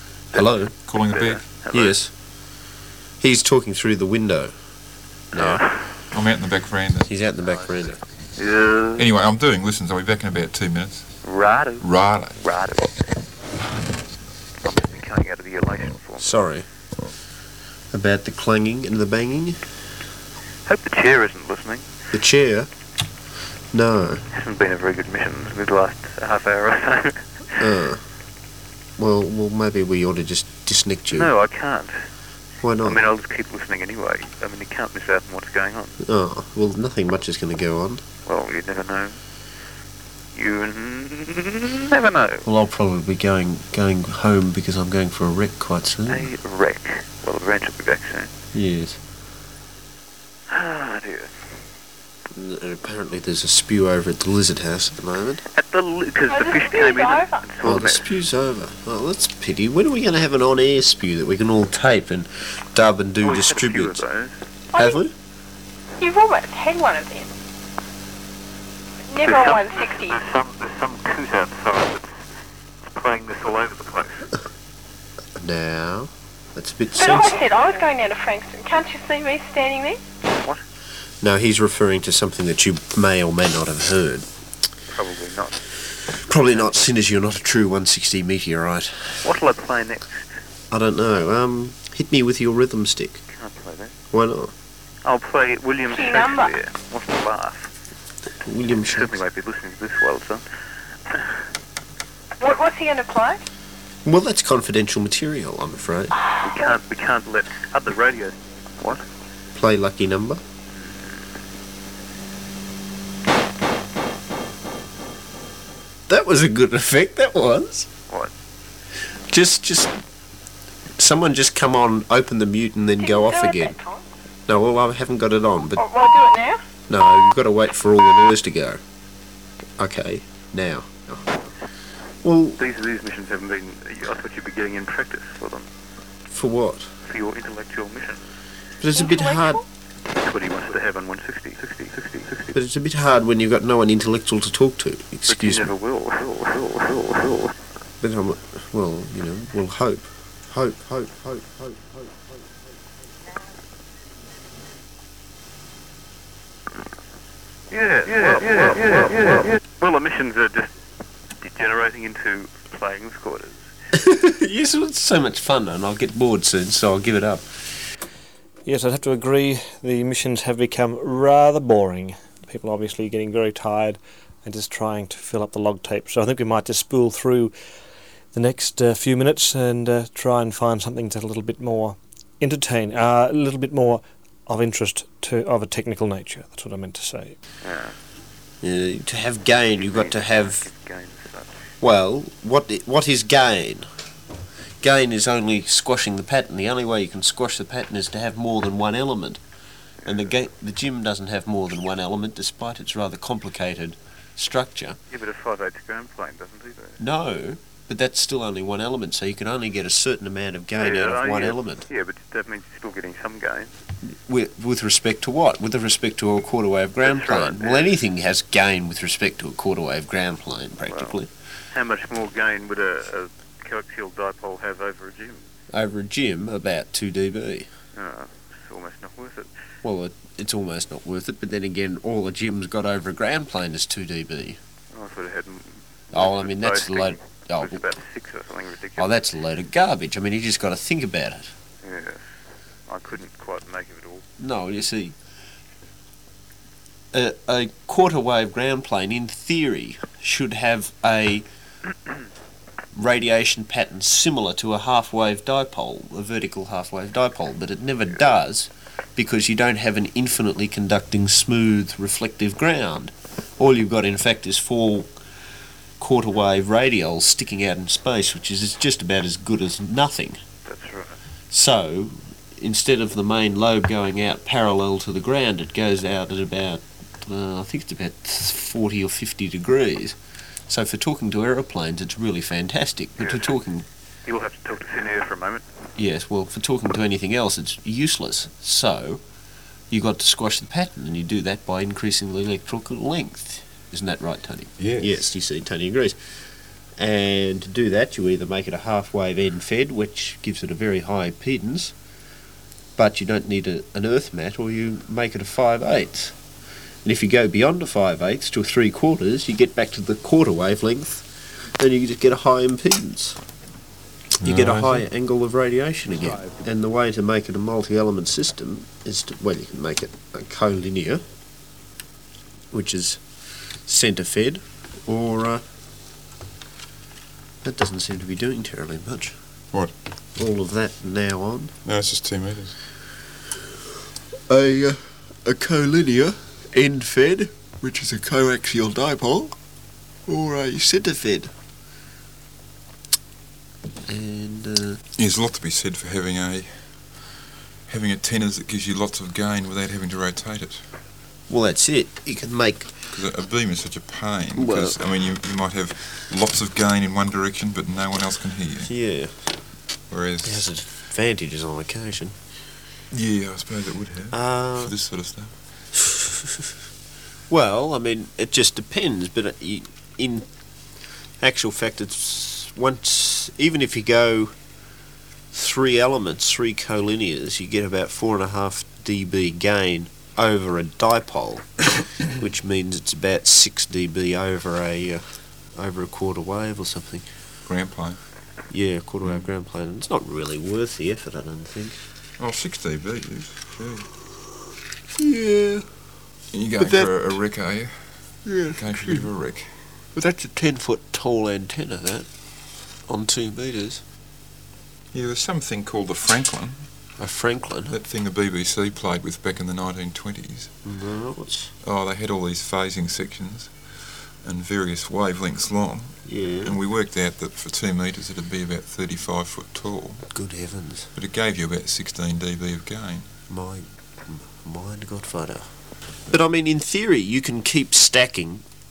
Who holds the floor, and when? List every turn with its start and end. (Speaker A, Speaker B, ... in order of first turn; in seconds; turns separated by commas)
Speaker A: 0.3-0.7, Speaker B: 0.3-2.0, Speaker C: 0.9-1.4, Speaker A: 1.7-2.1, Speaker A: 3.2-4.5, Speaker A: 5.3-5.6, Speaker B: 5.3-5.9, Speaker C: 6.1-7.1, Speaker A: 7.1-8.0, Speaker B: 8.4-9.1, Speaker C: 8.9-11.1, Speaker B: 11.2-13.0, Speaker C: 11.8-12.4, Speaker B: 14.6-16.4, Speaker A: 16.2-16.6, Speaker A: 17.9-19.6, Speaker B: 20.6-21.9, Speaker A: 22.1-22.7, Speaker A: 23.7-24.2, Speaker B: 24.3-27.3, Speaker A: 27.6-28.0, Speaker A: 29.0-31.3, Speaker B: 31.1-32.0, Speaker A: 32.6-33.0, Speaker B: 32.8-36.0, Speaker A: 36.0-38.0, Speaker B: 38.2-39.2, Speaker B: 40.3-42.5, Speaker A: 42.4-46.3, Speaker B: 46.1-48.3, Speaker A: 48.5-49.0, Speaker B: 50.5-51.3, Speaker A: 52.3-55.4, Speaker B: 55.5-58.1, Speaker D: 56.3-57.4, Speaker A: 57.6-64.0, Speaker B: 63.2-64.4, Speaker D: 64.7-65.0, Speaker A: 64.8-65.1, Speaker D: 66.0-67.3, Speaker D: 69.1-70.2, Speaker B: 69.2-72.2, Speaker B: 72.8-74.3, Speaker A: 75.4-77.4, Speaker D: 77.0-80.0, Speaker A: 81.2-84.2, Speaker B: 84.9-85.6, Speaker A: 86.2-89.2, Speaker B: 86.4-86.8, Speaker B: 89.2-90.3, Speaker A: 90.7-93.2, Speaker B: 93.3-94.0, Speaker A: 94.1-94.5, Speaker B: 95.0-97.7, Speaker D: 95.9-96.6, Speaker A: 98.4-99.2, Speaker B: 98.7-100.4, Speaker D: 102.4-103.4, Speaker A: 104.0-106.1, Speaker B: 106.4-109.0, Speaker D: 106.4-106.7, Speaker A: 109.5-110.4, Speaker B: 110.8-111.1, Speaker A: 116.1-117.9, Speaker A: 119.3-120.0, Speaker A: 121.0-123.7, Speaker D: 123.0-124.0, Speaker A: 124.5-125.8, Speaker D: 125.8-126.6, Speaker A: 126.9-128.8, Speaker A: 129.8-131.4, Speaker A: 132.2-132.6, Speaker B: 132.6-135.7, Speaker A: 136.3-136.9, Speaker B: 137.0-138.3, Speaker A: 138.8-139.6, Speaker D: 138.9-139.6, Speaker B: 140.1-142.5, Speaker A: 142.5-145.7, Speaker B: 145.3-147.5, Speaker A: 148.0-152.1, Speaker B: 157.7-160.7, Speaker B: 161.4-163.7, Speaker A: 163.9-167.5, Speaker E: 168.7-177.5, Speaker E: 178.3-187.4, Speaker B: 187.6-188.0, Speaker A: 188.6-190.7, Speaker B: 189.7-191.6, Speaker A: 191.8-193.9, Speaker A: 194.8-199.4, Speaker B: 200.0-200.4, Speaker A: 200.0-205.0, Speaker B: 205.1-207.0, Speaker A: 207.0-211.9, Speaker B: 210.8-213.7, Speaker A: 214.1-221.3, Speaker B: 217.0-218.0, Speaker B: 220.8-221.2, Speaker B: 221.7-225.5, Speaker A: 225.7-227.7, Speaker B: 227.9-229.5, Speaker A: 229.8-234.6, Speaker B: 234.9-239.2, Speaker A: 236.1-237.8, Speaker A: 239.0-241.5, Speaker B: 241.8-242.2, Speaker B: 242.9-244.2, Speaker A: 244.4-245.1, Speaker A: 247.1-251.4, Speaker A: 252.9-265.1, Speaker A: 266.0-270.4, Speaker B: 270.6-271.2, Speaker A: 271.5-280.1, Speaker A: 280.7-283.9, Speaker B: 283.2-283.5, Speaker B: 284.2-285.6, Speaker A: 286.0-289.2, Speaker A: 289.9-296.2, Speaker C: 294.8-295.2, Speaker A: 297.0-301.9, Speaker A: 302.9-306.4, Speaker A: 307.0-313.4, Speaker C: 314.4-315.0, Speaker A: 314.4-321.2, Speaker A: 322.7-323.2, Speaker A: 323.9-325.6, Speaker A: 327.6-329.4, Speaker A: 330.4-331.7, Speaker C: 331.8-332.8, Speaker A: 334.5-339.5, Speaker A: 340.3-341.5, Speaker A: 344.1-345.0, Speaker C: 345.2-346.9, Speaker C: 347.9-350.8, Speaker A: 351.5-352.9, Speaker C: 353.1-358.9, Speaker A: 354.6-354.9, Speaker A: 358.9-359.5, Speaker C: 360.1-360.7, Speaker A: 360.4-362.3, Speaker C: 363.1-365.5, Speaker A: 364.3-364.9, Speaker A: 365.9-366.7, Speaker A: 367.5-370.5, Speaker A: 371.4-374.5, Speaker A: 375.5-385.2, Speaker A: 385.7-387.2, Speaker C: 387.6-388.2, Speaker A: 388.7-392.0, Speaker C: 392.4-394.1, Speaker A: 395.1-395.9, Speaker C: 396.5-398.0, Speaker A: 396.8-397.2, Speaker A: 398.4-399.3, Speaker C: 398.7-399.7, Speaker A: 400.1-402.3, Speaker A: 403.1-404.0, Speaker C: 405.1-406.9, Speaker A: 407.2-408.0, Speaker C: 407.9-410.7, Speaker A: 410.8-411.7, Speaker C: 411.8-420.3, Speaker A: 416.2-416.8, Speaker A: 420.3-421.1, Speaker C: 421.1-423.3, Speaker A: 423.5-425.7, Speaker A: 426.3-428.6